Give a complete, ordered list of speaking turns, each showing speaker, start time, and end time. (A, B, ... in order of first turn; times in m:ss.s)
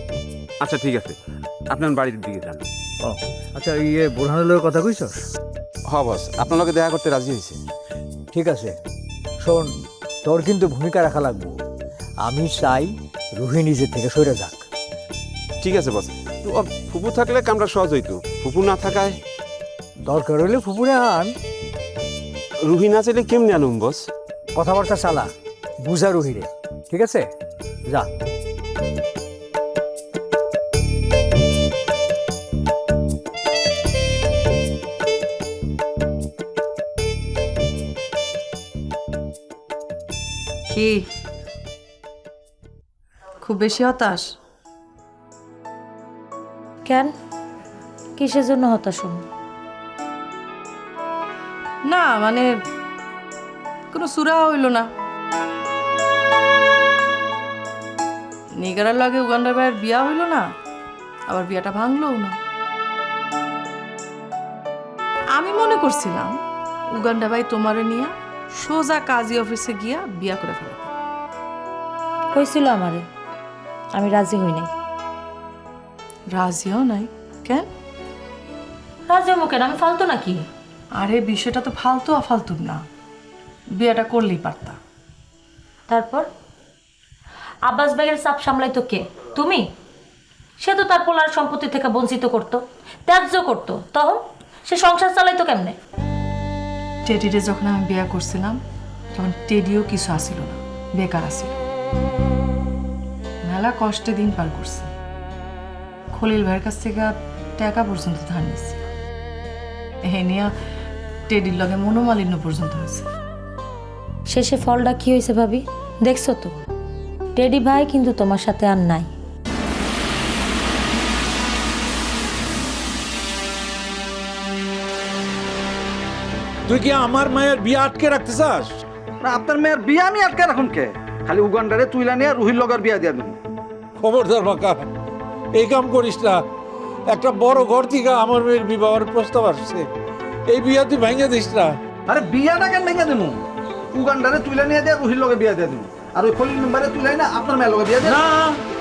0:00.6-0:01.2 A
0:01.7-0:02.6 A
0:03.0-0:05.2 B
0:05.9-0:07.6 A
0:08.3-0:08.8 B
0:09.4-0:09.7 B
0:10.2-0:11.5 B
0:12.2-0:14.6 B
0:15.6-0:19.2 A
0:20.1-0:21.3 B
0:22.6-0:24.1 A
0:24.5-0:25.3 B
0:25.8-0:27.3 B
0:40.7-0:41.0 C
0:43.4-0:44.3 C
0:46.9-0:47.1 D
0:48.2-0:49.2 D
0:51.8-0:52.5 C
0:53.9-0:54.8 C
0:58.6-1:00.4 C
1:01.3-1:02.4 C
1:05.4-1:06.4 C
1:07.0-1:10.9 C
1:12.3-1:13.0 D
1:13.9-1:14.7 D
1:16.3-1:17.6 C
1:19.1-1:20.4 D
1:21.0-1:22.8 C
1:23.8-1:24.8 C
1:25.9-1:26.2 D
1:27.7-1:29.6 D
1:30.6-1:35.7 D
1:37.0-1:38.6 C
1:39.2-1:41.5 C
1:43.4-1:44.9 C
1:46.1-1:48.8 C
1:50.0-1:50.5 C
1:51.3-1:53.0 C
1:54.3-1:56.5 D
1:57.4-1:59.1 D
2:06.7-2:08.8 E
2:09.2-2:13.4 F
2:14.0-2:14.8 E
2:15.5-2:16.4 E
2:17.1-2:19.9 E
2:20.5-2:21.7 E
2:22.1-2:23.4 F
2:23.9-2:28.2 F
2:28.0-2:28.6 E